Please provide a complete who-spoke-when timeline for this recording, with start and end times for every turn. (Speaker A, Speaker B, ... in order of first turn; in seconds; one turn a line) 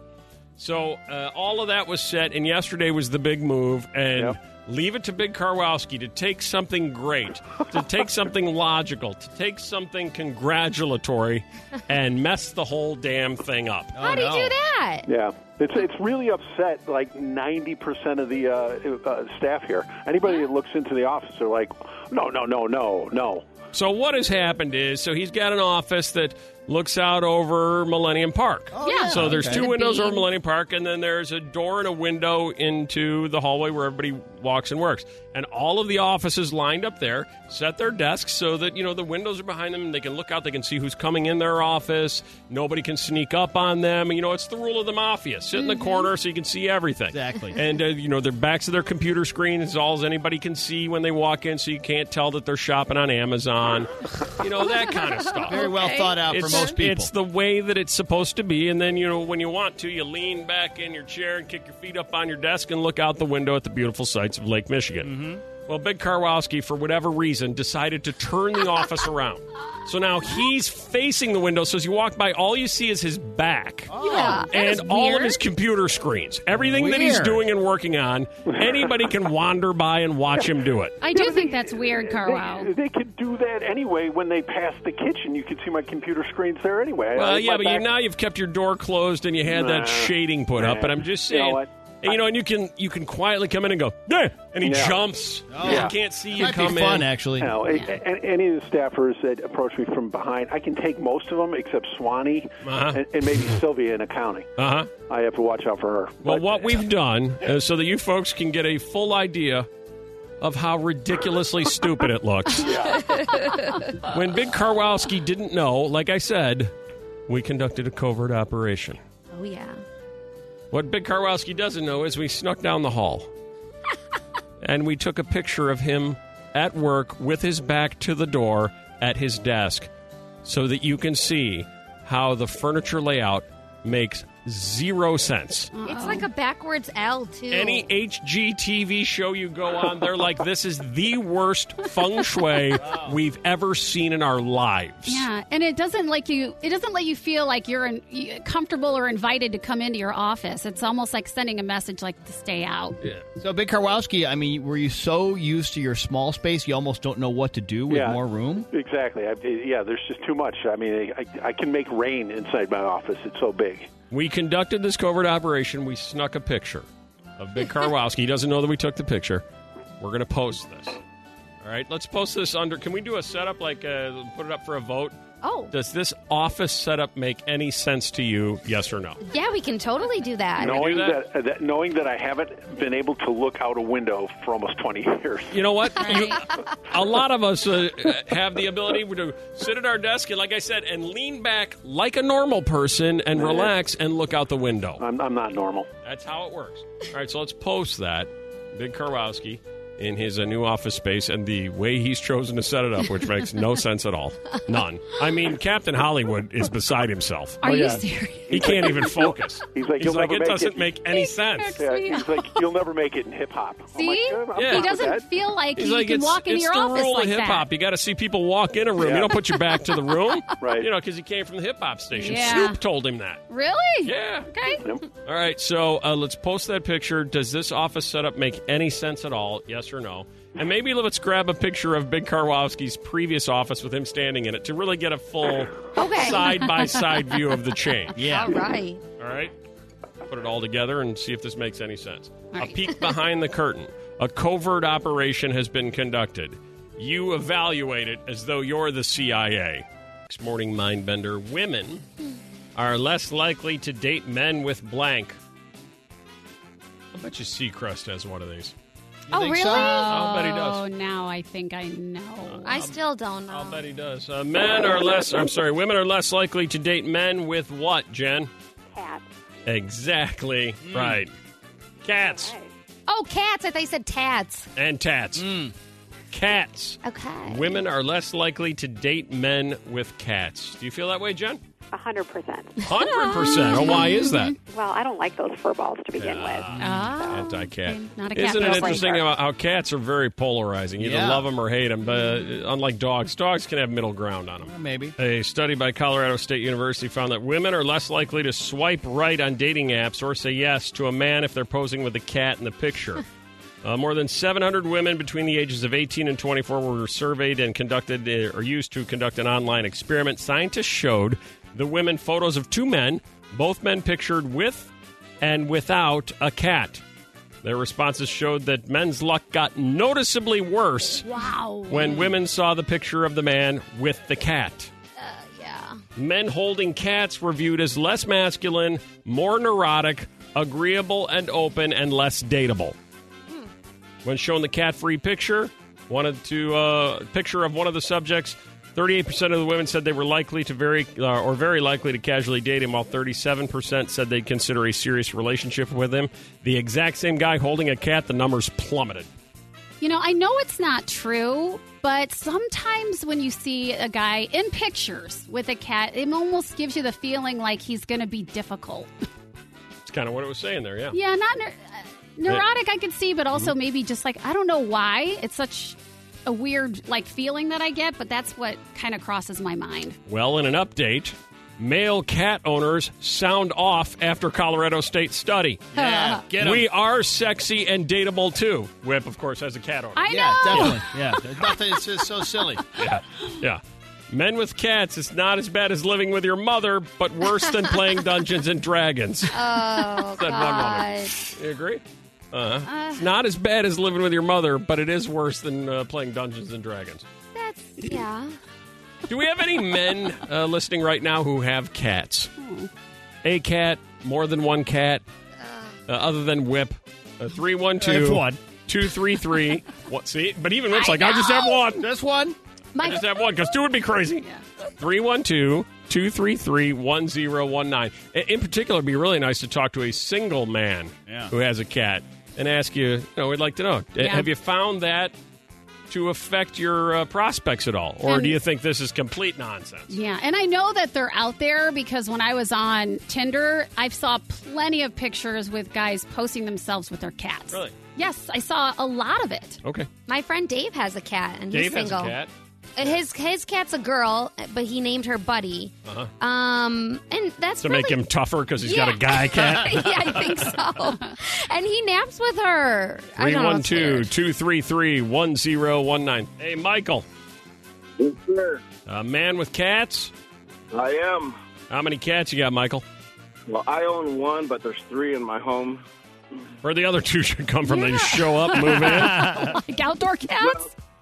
Speaker A: 0.6-13.9
Speaker B: 13.9-14.6
Speaker C: 14.0-15.1
Speaker D: 15.1-23.5
Speaker A: 23.7-55.7
Speaker B: 28.7-29.7
Speaker C: 28.9-30.2
Speaker B: 47.1-47.6
Speaker C: 55.4-56.7
Speaker B: 55.5-57.1
Speaker A: 56.3-73.9
Speaker B: 65.0-65.4
Speaker B: 73.9-74.5
Speaker C: 74.0-74.5
Speaker E: 74.3-75.4
Speaker A: 74.5-81.0
Speaker B: 76.5-77.4
Speaker E: 81.0-82.7
Speaker D: 81.1-87.9
Speaker A: 87.2-97.1
Speaker D: 89.5-92.2
Speaker D: 94.6-95.0
Speaker B: 95.5-97.6
Speaker D: 95.6-95.9
Speaker D: 97.4-104.5
Speaker A: 102.6-103.0
Speaker A: 104.6-104.9
Speaker D: 105.1-106.8
Speaker A: 106.2-109.7
Speaker A: 110.4-112.7
Speaker D: 112.6-113.1
Speaker C: 113.1-113.9
Speaker A: 114.1-116.7
Speaker A: 117.3-119.0
Speaker C: 119.3-119.8
Speaker A: 120.7-123.3
Speaker A: 124.6-129.9
Speaker A: 130.4-135.7
Speaker E: 135.7-136.3
Speaker C: 135.8-137.9
Speaker A: 137.5-145.3
Speaker E: 145.1-153.0
Speaker B: 153.4-158.7
Speaker D: 157.9-163.9
Speaker A: 164.1-166.9
Speaker A: 167.4-169.5
Speaker A: 170.0-171.0
Speaker A: 171.6-175.2
Speaker C: 175.4-175.7
Speaker A: 175.7-179.2
Speaker C: 179.2-180.9
Speaker A: 180.6-181.2
Speaker D: 180.6-185.6
Speaker A: 185.5-195.0
Speaker C: 186.0-186.6
Speaker D: 193.4-193.7
Speaker D: 195.0-195.9
Speaker A: 196.0-207.6
Speaker E: 207.6-208.9
Speaker D: 207.6-210.9
Speaker A: 208.5-211.8
Speaker E: 211.1-212.5
Speaker D: 211.8-215.3
Speaker E: 213.9-217.7
Speaker A: 214.6-215.0
Speaker A: 215.8-223.4
Speaker D: 219.0-219.3
Speaker D: 220.6-220.9
Speaker E: 222.1-222.8
Speaker E: 223.5-224.8
Speaker A: 224.0-224.5
Speaker D: 224.8-225.1
Speaker A: 225.2-238.2
Speaker C: 236.0-236.7
Speaker B: 238.2-238.6
Speaker C: 238.2-239.0
Speaker A: 239.2-239.5
Speaker A: 240.3-252.1
Speaker A: 252.8-255.4
Speaker A: 257.1-258.8
Speaker B: 259.3-260.1
Speaker C: 259.3-260.2
Speaker E: 259.6-262.8
Speaker A: 260.1-260.8
Speaker A: 262.5-268.5
Speaker C: 262.6-263.8
Speaker F: 268.9-269.3
Speaker A: 269.7-271.3
Speaker B: 270.9-271.2
Speaker A: 272.0-272.6
Speaker F: 272.1-272.7
Speaker C: 273.1-274.7
Speaker A: 274.8-275.6
Speaker B: 275.4-275.7
Speaker A: 276.3-281.6
Speaker C: 277.0-277.8
Speaker F: 281.9-282.9
Speaker A: 282.8-284.6
Speaker E: 283.5-284.5
Speaker F: 284.6-287.4
Speaker A: 286.2-303.2
Speaker E: 286.8-289.2
Speaker F: 288.7-289.2
Speaker B: 291.0-291.5
Speaker B: 294.6-295.1
Speaker A: 303.8-317.0
Speaker A: 317.6-321.2
Speaker C: 321.2-322.3
Speaker A: 321.9-324.9
Speaker C: 325.2-326.0
Speaker A: 326.2-333.0
Speaker A: 334.2-349.3
Speaker E: 350.0-359.1
Speaker A: 360.1-361.2
Speaker E: 361.1-370.2
Speaker A: 370.3-375.9
Speaker B: 375.9-376.9
Speaker E: 376.0-376.4
Speaker A: 376.6-381.0
Speaker E: 380.2-381.9
Speaker B: 380.3-382.8
Speaker A: 382.9-389.6
Speaker C: 389.5-391.5
Speaker A: 390.3-397.2
Speaker E: 392.9-393.2
Speaker C: 397.6-398.6
Speaker A: 399.3-402.5
Speaker E: 402.6-402.9
Speaker A: 403.4-405.2
Speaker C: 405.6-405.9
Speaker A: 406.1-412.1
Speaker B: 408.0-408.6
Speaker C: 411.0-411.8
Speaker B: 412.0-412.6
Speaker C: 412.9-413.5
Speaker A: 413.0-425.3
Speaker B: 421.3-421.5
Speaker E: 424.2-424.5
Speaker A: 426.1-430.2
Speaker E: 428.3-428.6
Speaker E: 430.1-439.8
Speaker A: 437.7-438.0
Speaker A: 439.8-440.1
Speaker C: 440.3-442.4
Speaker A: 441.7-443.2
Speaker C: 443.0-448.2
Speaker A: 446.1-446.3
Speaker A: 447.8-450.4
Speaker C: 448.8-454.3
Speaker A: 453.4-457.3
Speaker G: 458.2-458.8
Speaker A: 459.1-460.3
Speaker G: 460.9-461.6
Speaker A: 461.9-463.1
Speaker G: 463.7-466.0
Speaker A: 466.8-469.7
Speaker E: 467.9-470.9
Speaker B: 469.1-469.7
Speaker G: 470.6-470.9